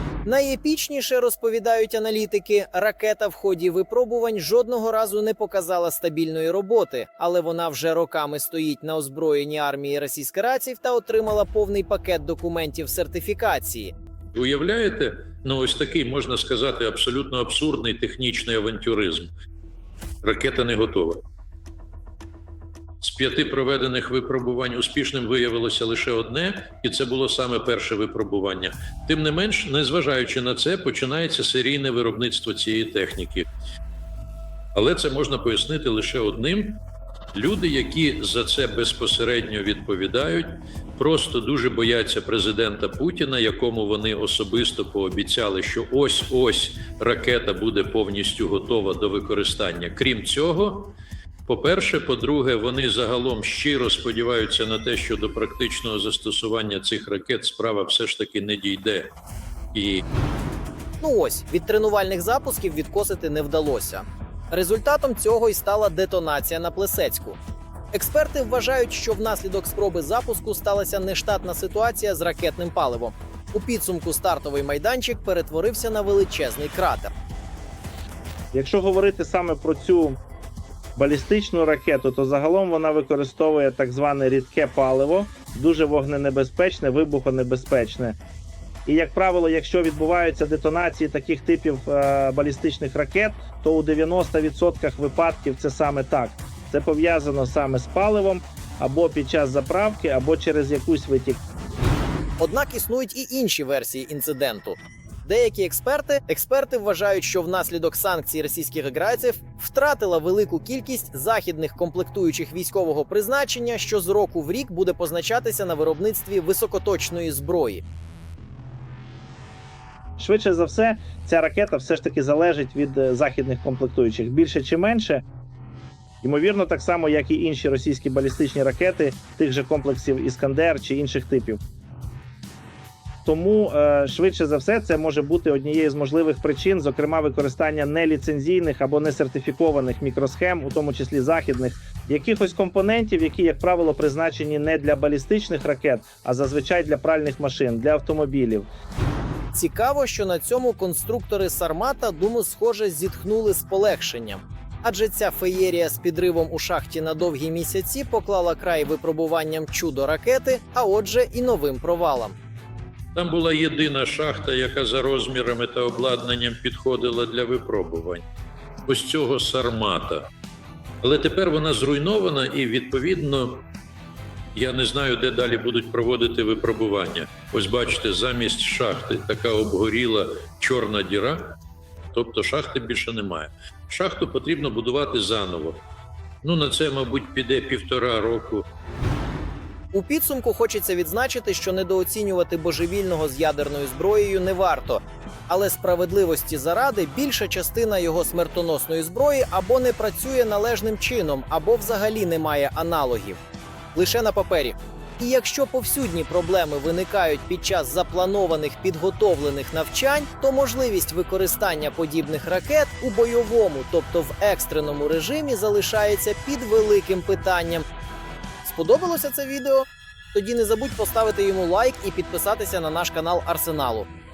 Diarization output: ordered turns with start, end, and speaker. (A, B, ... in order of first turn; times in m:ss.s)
0:00.2-0:13.9 A
0:14.3-0:19.3 B
0:20.2-0:21.2 B
0:23.0-0:33.5 B
0:34.7-0:36.8 B
0:37.3-0:50.9 B
0:51.5-0:59.1 B
0:59.7-1:00.0 B
1:01.0-1:07.4 A
1:07.9-1:17.1 A
1:18.5-1:20.2 C
1:21.0-1:28.2 C
1:28.8-1:41.4 C
1:42.4-1:57.8 A
2:00.2-2:05.2 C
2:06.2-2:11.6 C
2:13.2-2:28.7 C
2:29.5-2:42.4 A
2:43.1-2:48.2 B
2:48.9-2:50.2 B
2:51.0-2:53.6 B
2:54.5-3:01.5 B
3:02.1-3:05.8 B
3:06.4-3:08.6 B
3:09.9-3:23.4 A
3:23.9-3:37.8 A
3:38.6-3:44.1 A